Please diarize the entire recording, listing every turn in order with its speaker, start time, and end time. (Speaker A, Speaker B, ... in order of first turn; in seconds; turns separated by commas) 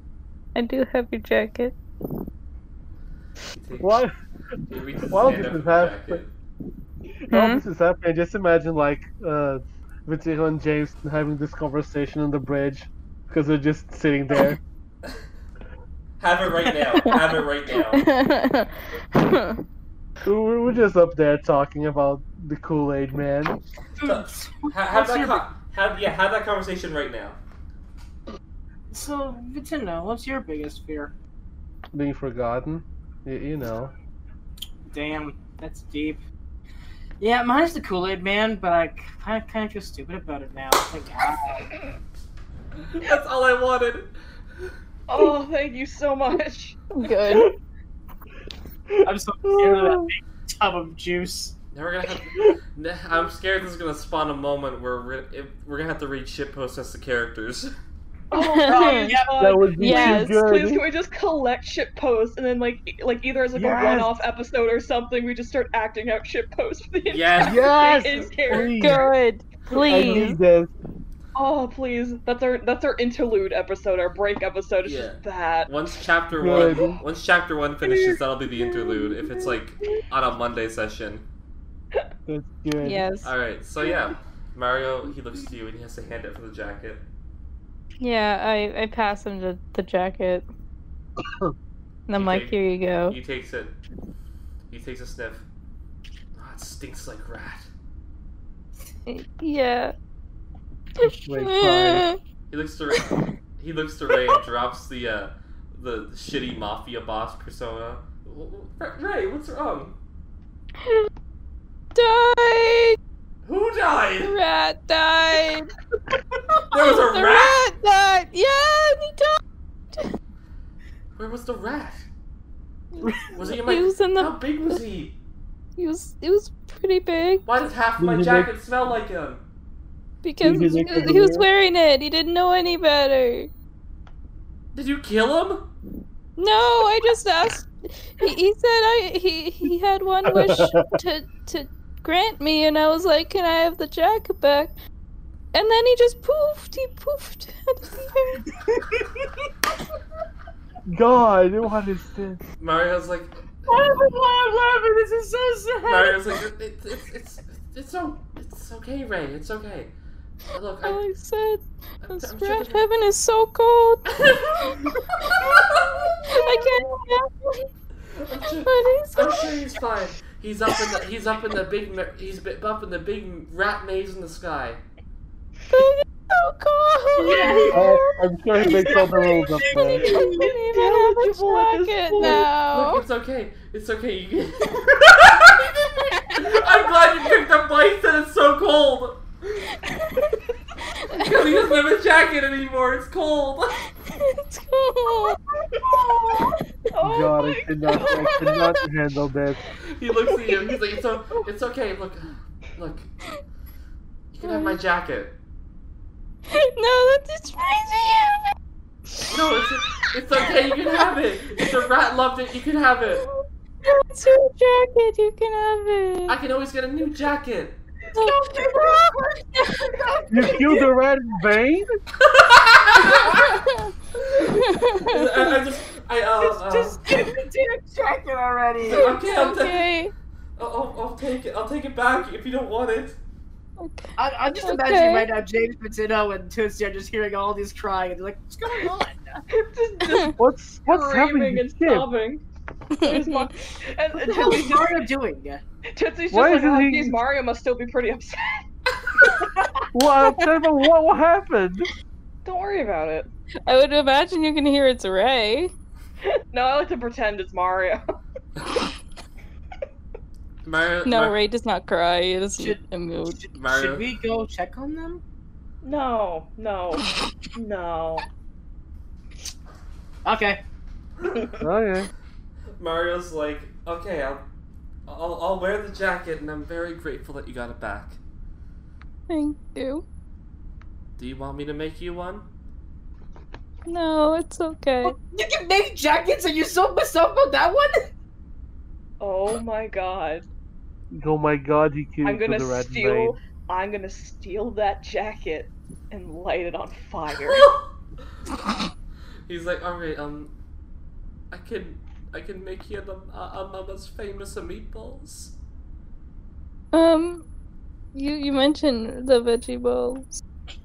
Speaker A: 0.5-1.8, Speaker B: 3.5-4.0, Speaker C: 3.8-4.1, Speaker B: 4.7-6.3, Speaker C: 5.0-6.2, Speaker A: 7.3-7.6, Speaker C: 7.3-14.6, Speaker B: 16.2-18.1, Speaker A: 17.9-19.6, Speaker C: 20.2-23.6, Speaker D: 24.0-25.5, Speaker B: 24.0-27.4, Speaker D: 28.9-31.1, Speaker C: 31.9-33.9, Speaker D: 34.9-36.2, Speaker D: 37.2-41.8, Speaker B: 42.8-44.1, Speaker E: 45.1-46.8, Speaker A: 46.9-47.5, Speaker D: 49.0-51.5, Speaker C: 49.4-50.1, Speaker B: 51.7-57.7, Speaker E: 58.3-69.1, Speaker A: 58.3-59.1, Speaker D: 58.6-59.7, Speaker C: 59.4-60.8, Speaker A: 59.8-60.4, Speaker C: 63.5-64.2, Speaker B: 67.1-68.2, Speaker C: 67.4-69.1, Speaker A: 68.8-70.4, Speaker C: 69.8-70.7, Speaker E: 69.9-70.3, Speaker E: 71.3-75.7, Speaker B: 74.8-81.2, Speaker C: 76.3-77.0, Speaker C: 82.3-83.1, Speaker A: 82.8-83.3, Speaker B: 83.2-87.0, Speaker A: 88.0-90.5, Speaker C: 91.2-91.5, Speaker A: 92.1-93.2, Speaker B: 92.1-93.7, Speaker B: 94.7-95.5, Speaker B: 96.3-97.7, Speaker A: 99.1-99.9, Speaker A: 101.0-102.2, Speaker C: 101.0-102.1, Speaker B: 102.5-110.0, Speaker A: 110.8-111.1, Speaker A: 111.9-113.0, Speaker B: 113.4-114.3, Speaker A: 114.2-115.7, Speaker B: 116.7-117.7, Speaker A: 116.7-119.4, Speaker B: 121.2-122.1, Speaker A: 123.0-124.8, Speaker B: 123.3-125.2, Speaker A: 125.8-127.4, Speaker B: 127.5-129.4, Speaker C: 128.0-128.5, Speaker A: 130.2-133.5, Speaker C: 130.4-131.4, Speaker B: 134.7-135.7, Speaker A: 136.4-144.7, Speaker C: 140.2-140.9, Speaker A: 145.5-148.4, Speaker D: 148.6-149.3, Speaker C: 150.9-152.4, Speaker B: 152.6-153.3, Speaker D: 153.7-156.3, Speaker B: 155.8-159.9, Speaker B: 160.5-161.0, Speaker A: 160.8-165.6, Speaker B: 162.0-162.8, Speaker B: 164.1-166.1, Speaker A: 166.3-167.7, Speaker B: 168.1-174.8, Speaker A: 168.4-169.6, Speaker A: 175.7-177.9, Speaker D: 177.2-180.5, Speaker E: 177.2-177.9, Speaker C: 177.7-180.1, Speaker A: 178.7-179.1, Speaker E: 179.6-182.5, Speaker A: 179.9-183.0, Speaker D: 182.2-182.4, Speaker B: 182.2-189.7, Speaker A: 186.2-186.4, Speaker A: 189.7-191.7, Speaker B: 191.1-193.8, Speaker A: 193.9-195.4, Speaker D: 195.6-196.6, Speaker E: 195.8-196.3, Speaker E: 196.9-198.6, Speaker C: 197.0-199.6, Speaker A: 197.9-198.7, Speaker B: 199.8-203.1, Speaker B: 204.3-205.3, Speaker A: 204.4-204.8, Speaker A: 206.5-208.5, Speaker B: 209.3-213.3, Speaker A: 210.4-210.7, Speaker A: 213.8-216.4, Speaker B: 216.3-217.8, Speaker A: 218.1-219.9, Speaker D: 218.1-220.9, Speaker C: 220.3-222.0, Speaker B: 222.2-223.4, Speaker A: 223.0-225.6, Speaker B: 224.2-227.0, Speaker D: 226.4-229.1, Speaker B: 228.8-229.9, Speaker A: 228.9-230.1, Speaker B: 230.6-233.2, Speaker A: 233.8-235.3, Speaker D: 234.2-239.4, Speaker E: 239.5-242.4, Speaker C: 240.3-242.1, Speaker A: 242.9-243.8, Speaker E: 243.0-245.0, Speaker D: 244.1-245.6, Speaker E: 245.9-248.6, Speaker C: 246.3-247.2, Speaker C: 249.9-251.9, Speaker E: 252.4-253.3, Speaker A: 253.7-255.7, Speaker E: 256.2-258.0, Speaker B: 260.6-261.4, Speaker A: 261.0-263.4, Speaker D: 262.6-265.2, Speaker B: 263.6-264.0, Speaker E: 265.8-268.2, Speaker D: 270.2-270.6, Speaker C: 271.6-272.1, Speaker B: 272.8-274.4, Speaker B: 275.1-278.2, Speaker A: 279.3-280.0, Speaker B: 281.2-282.4, Speaker A: 283.9-285.1, Speaker D: 285.0-288.1, Speaker E: 289.2-290.4, Speaker C: 291.1-293.4, Speaker E: 292.2-297.7, Speaker B: 297.4-297.8, Speaker B: 299.5-300.5, Speaker B: 301.5-305.5, Speaker A: 306.9-307.4, Speaker A: 308.1-310.4